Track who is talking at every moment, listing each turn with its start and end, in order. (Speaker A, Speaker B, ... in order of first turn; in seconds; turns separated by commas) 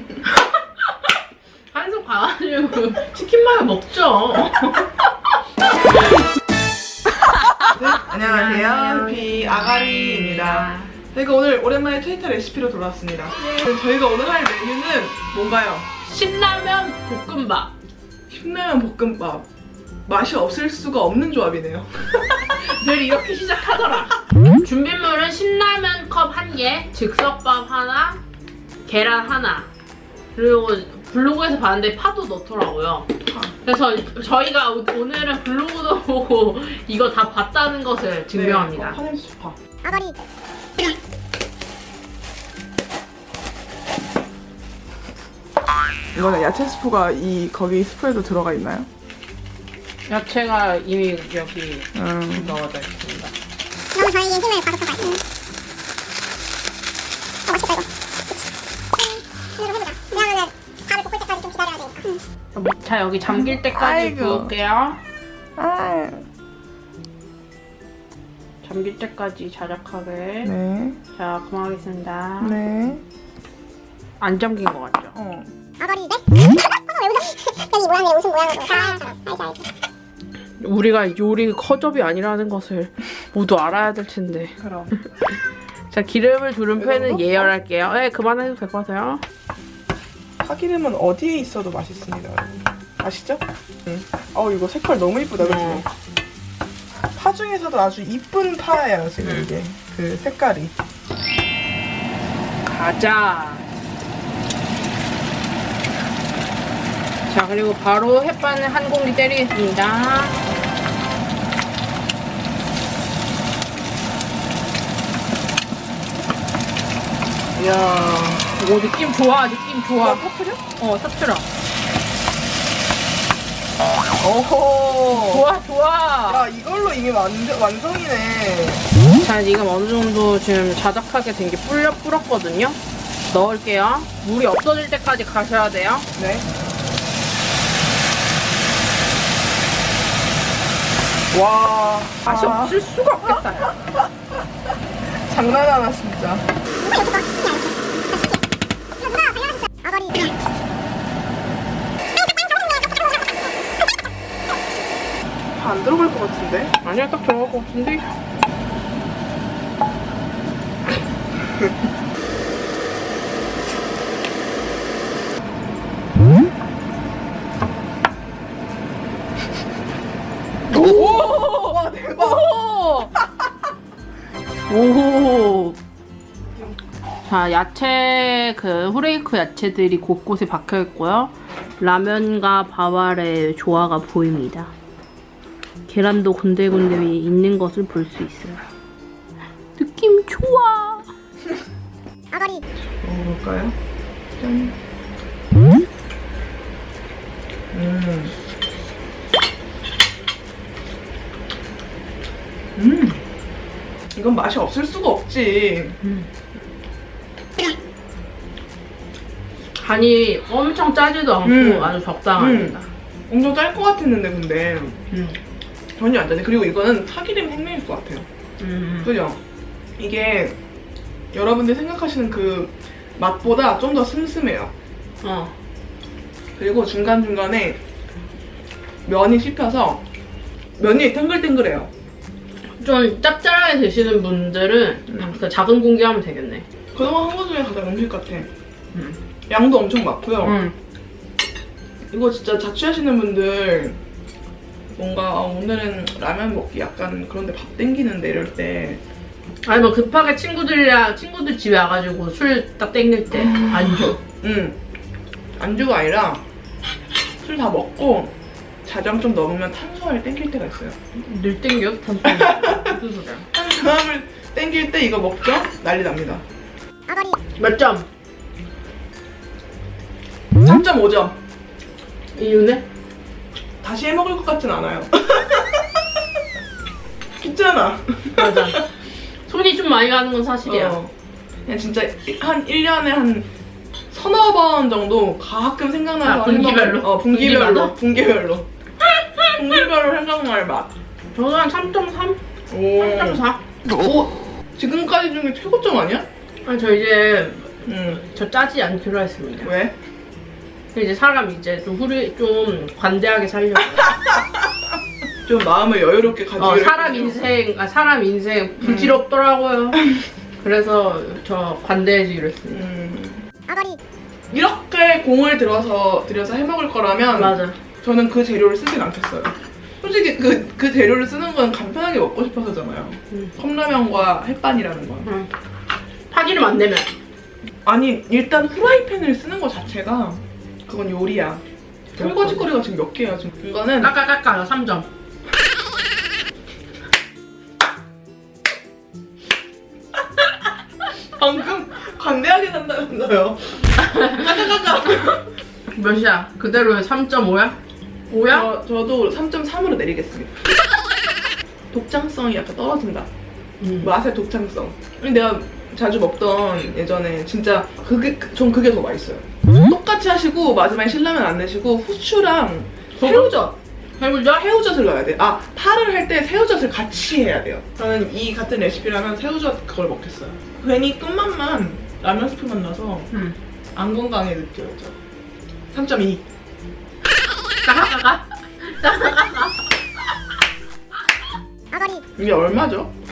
Speaker A: 0.2-0.9, Speaker A: 1.7-4.9, Speaker A: 5.7-6.1, Speaker A: 7.5-10.9, Speaker B: 7.7-15.9, Speaker A: 16.0-17.7, Speaker B: 18.3-19.5, Speaker B: 20.1-22.5, Speaker A: 22.6-28.2, Speaker A: 28.9-29.7, Speaker A: 30.3-33.1, Speaker B: 33.3-33.5, Speaker A: 33.6-39.0, Speaker B: 38.3-39.6, Speaker C: 39.8-40.1, Speaker B: 46.1-48.9, Speaker A: 50.1-53.3, Speaker B: 51.9-52.6, Speaker C: 53.9-55.2, Speaker C: 57.5-57.9, Speaker C: 59.0-62.1, Speaker A: 62.5-65.0, Speaker B: 63.3-64.5, Speaker B: 65.6-66.2, Speaker A: 68.6-70.5, Speaker B: 70.4-71.0, Speaker A: 71.1-72.6, Speaker B: 72.4-73.0, Speaker A: 74.2-75.2, Speaker B: 75.1-75.5, Speaker C: 75.8-79.6, Speaker A: 80.6-84.5, Speaker B: 84.6-84.9, Speaker A: 85.9-89.2, Speaker B: 86.8-87.5, Speaker B: 90.4-95.9, Speaker A: 95.4-95.8, Speaker B: 97.1-100.7, Speaker A: 99.2-99.5, Speaker A: 102.7-103.6, Speaker A: 107.3-110.4, Speaker A: 117.5-121.5, Speaker B: 120.0-120.6, Speaker B: 124.2-125.5, Speaker A: 125.0-126.5, Speaker B: 126.3-128.8, Speaker A: 129.2-132.8, Speaker A: 133.3-136.1, Speaker B: 136.1-136.5, Speaker B: 141.3-142.7, Speaker A: 142.2-143.7, Speaker B: 145.2-146.4, Speaker C: 146.8-148.4, Speaker C: 149.1-150.3, Speaker C: 152.2-153.2, Speaker B: 155.5-156.8, Speaker A: 156.8-158.1, Speaker A: 170.7-173.1, Speaker B: 170.7-173.1, Speaker A: 174.7-175.8, Speaker A: 177.2-184.7, Speaker A: 185.9-188.7, Speaker A: 189.8-191.1, Speaker C: 192.3-192.6, Speaker B: 193.0-193.8, Speaker B: 194.4-194.8, Speaker B: 197.7-198.3, Speaker B: 202.8-203.2, Speaker B: 204.1-206.0, Speaker A: 206.0-206.3, Speaker A: 209.8-212.8, Speaker B: 211.4-212.8, Speaker B: 213.3-215.0, Speaker A: 215.1-215.4, Speaker B: 216.0-218.3, Speaker A: 218.6-219.1, Speaker B: 219.0-219.4, Speaker B: 220.0-220.6, Speaker B: 221.3-224.7, Speaker A: 225.2-225.5, Speaker B: 226.6-227.8, Speaker B: 229.1-230.0, Speaker B: 230.8-231.9, Speaker A: 232.8-236.6, Speaker B: 235.1-235.4, Speaker B: 236.9-238.5, Speaker B: 239.5-240.6, Speaker A: 240.4-240.7, Speaker B: 242.1-244.0, Speaker B: 244.9-249.0, Speaker A: 249.6-254.2, Speaker B: 253.3-254.8, Speaker B: 255.6-256.4, Speaker B: 257.4-258.3, Speaker B: 258.9-261.0, Speaker A: 261.1-263.5, Speaker B: 262.2-262.9, Speaker B: 263.5-266.4, Speaker C: 267.1-267.3, Speaker A: 267.6-268.1, Speaker B: 270.6-271.4, Speaker A: 272.3-272.8, Speaker B: 273.8-276.2, Speaker B: 277.4-278.9, Speaker A: 278.3-278.8, Speaker A: 279.4-281.0, Speaker B: 280.6-281.1, Speaker B: 281.6-283.5, Speaker B: 284.1-288.7, Speaker A: 286.2-287.9, Speaker A: 289.2-289.6, Speaker B: 289.5-290.9, Speaker A: 291.3-292.4, Speaker B: 292.7-293.4, Speaker A: 292.9-293.6, Speaker B: 294.0-296.3, Speaker A: 296.6-299.7, Speaker B: 297.8-298.2, Speaker B: 299.6-299.9, Speaker A: 300.9-304.3, Speaker B: 305.4-307.4, Speaker A: 306.6-310.0, Speaker B: 308.8-309.2, Speaker A: 310.6-312.8, Speaker B: 312.7-313.5, Speaker C: 313.7-314.0, Speaker B: 314.5-325.3, Speaker A: 317.3-317.8, Speaker A: 326.3-327.1, Speaker B: 327.8-331.6, Speaker B: 332.1-334.1, Speaker A: 332.2-332.4, Speaker A: 334.0-335.1, Speaker B: 341.3-345.4, Speaker A: 344.1-344.5, Speaker A: 345.9-347.8, Speaker A: 348.3-348.7, Speaker B: 348.5-350.7, Speaker B: 351.9-353.3, Speaker A: 353.8-354.1, Speaker B: 354.0-363.7, Speaker A: 363.2-364.6, Speaker B: 364.5-373.3, Speaker B: 373.9-375.2, Speaker B: 375.9-376.4, Speaker A: 377.8-379.9, Speaker C: 381.9-382.2, Speaker B: 382.4-383.1